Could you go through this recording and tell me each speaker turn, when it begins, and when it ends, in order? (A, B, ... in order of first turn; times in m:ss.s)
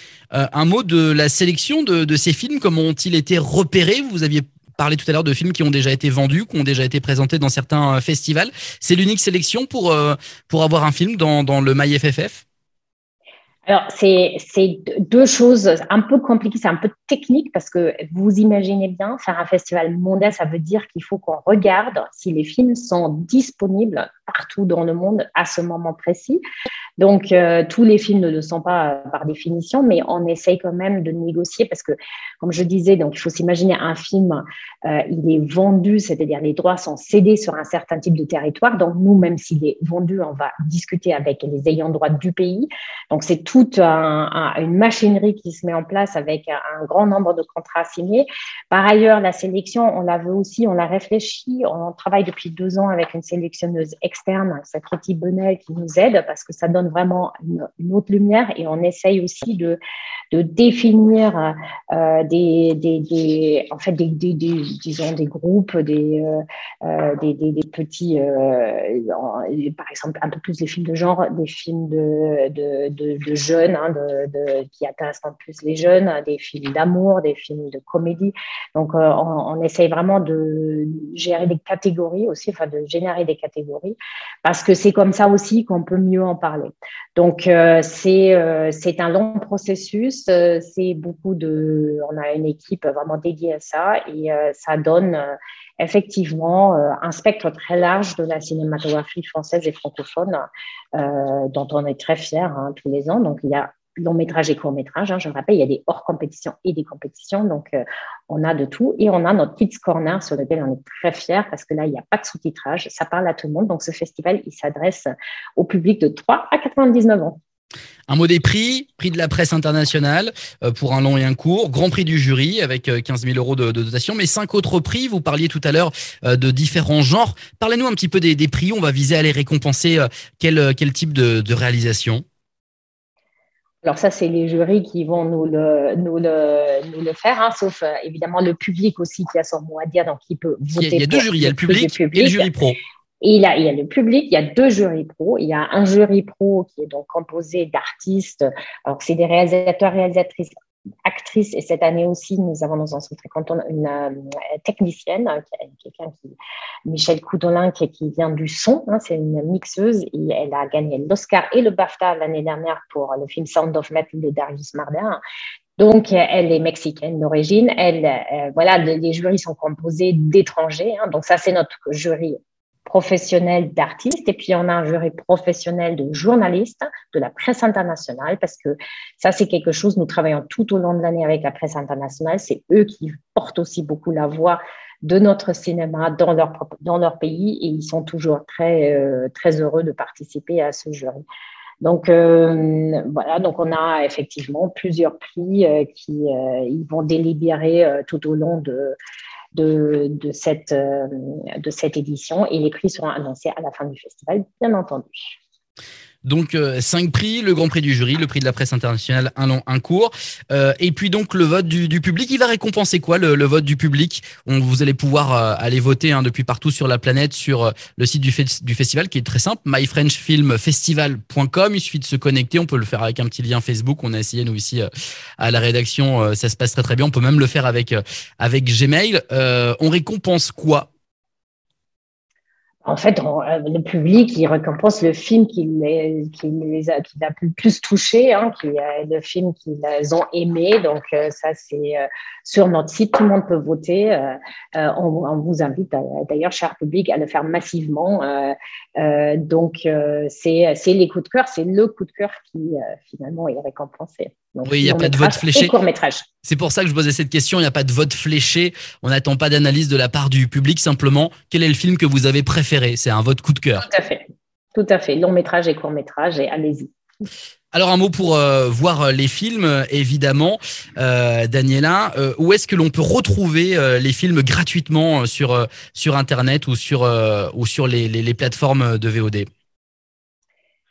0:00.3-0:12.4 A
0:13.7-0:26.4 B
0:27.0-0:59.8 B
1:00.3-1:40.4 B
1:41.0-1:57.4 B
1:58.1-2:12.2 A
2:13.8-2:22.5 B
2:20.7-2:22.8 A
2:23.2-2:30.5 B
2:31.0-2:45.2 B
2:45.8-3:11.2 B
3:11.8-3:19.0 B
3:19.5-3:25.4 B
3:26.2-3:44.8 A
3:45.4-3:50.9 A
3:52.8-4:16.3 B
4:14.6-4:15.7 A
4:16.4-4:23.8 A
4:23.8-4:26.9 B
4:27.7-4:39.5 A